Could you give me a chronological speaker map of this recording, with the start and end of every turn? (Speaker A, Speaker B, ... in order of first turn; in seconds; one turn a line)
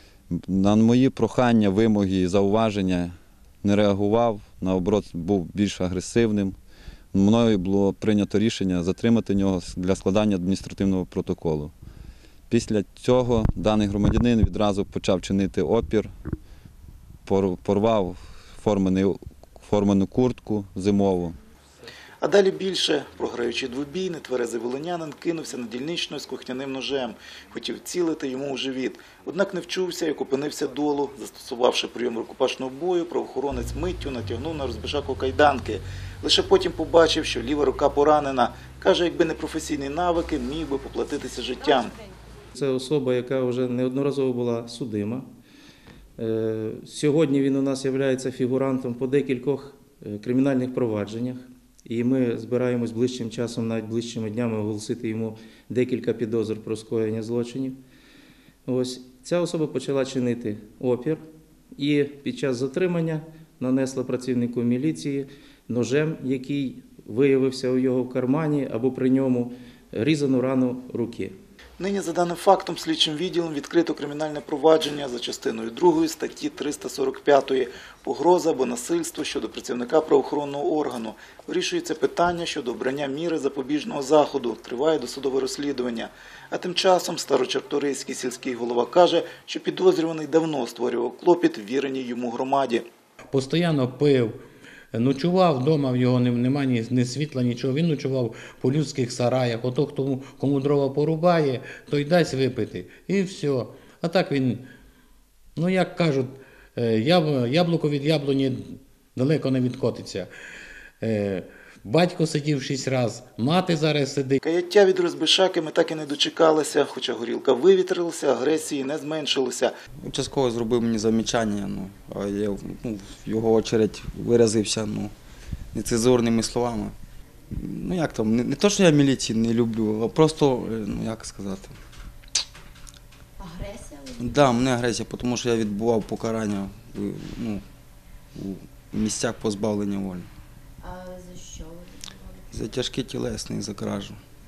Speaker A: 0.3-6.6
Speaker A: 7.1-11.7
Speaker A: 12.5-16.1
Speaker A: 17.2-21.4
Speaker B: 22.2-41.9
Speaker C: 42.5-45.2
Speaker C: 46.2-57.8
Speaker C: 58.6-61.2
Speaker C: 61.8-71.3
Speaker B: 71.8-92.8
Speaker D: 93.3-94.4
Speaker D: 94.9-104.7
Speaker D: 105.5-108.6
Speaker D: 109.1-110.3
Speaker D: 111.0-114.4
Speaker B: 114.4-119.7
Speaker E: 120.0-125.1
Speaker E: 125.7-126.9
Speaker E: 127.5-131.8
Speaker F: 133.4-134.5
Speaker E: 134.2-137.6
Speaker E: 138.3-140.3
Speaker F: 140.8-142.4
Speaker E: 142.5-144.2